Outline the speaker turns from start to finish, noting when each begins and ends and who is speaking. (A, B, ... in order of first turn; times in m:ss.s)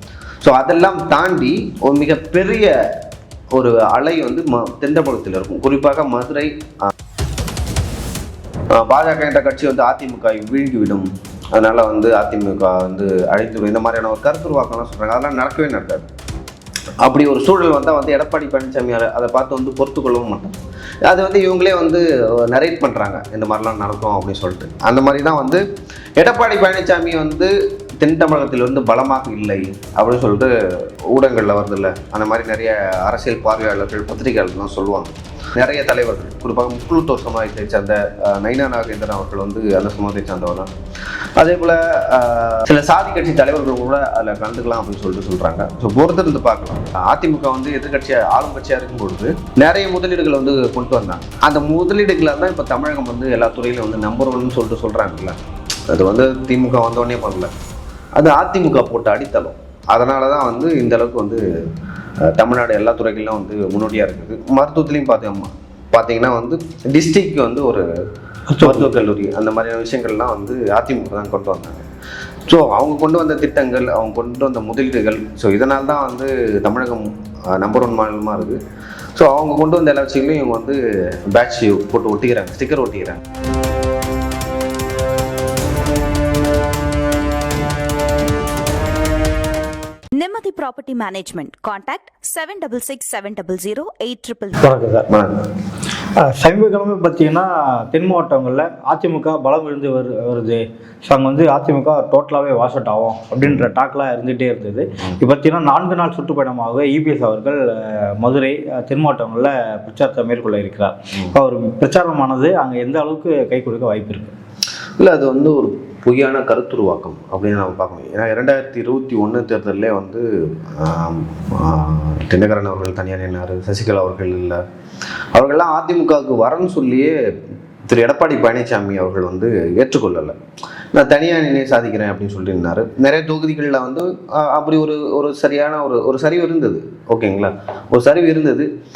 0:00.4-0:02.7 A
0:03.5-0:06.9 A
0:08.7-0:16.1 A
0:17.0-0:25.6 A
0:26.2-0:30.5 A
0:31.1-0:40.7 A
0:41.4-0:55.4 A
0:55.9-0:57.5 A
0:58.2-1:01.4 A
1:02.2-1:07.8 A
1:08.5-1:08.8 B
1:08.6-1:11.8 A
1:12.5-1:18.6 A
1:19.2-1:23.2 A
1:30.1-1:34.6 C
1:34.6-1:35.1 B
1:35.1-1:35.4 A
1:36.2-1:54.3 B
1:55.0-2:04.6 A
2:05.3-2:07.2 A
2:07.9-2:10.4 A
2:10.9-2:18.7 A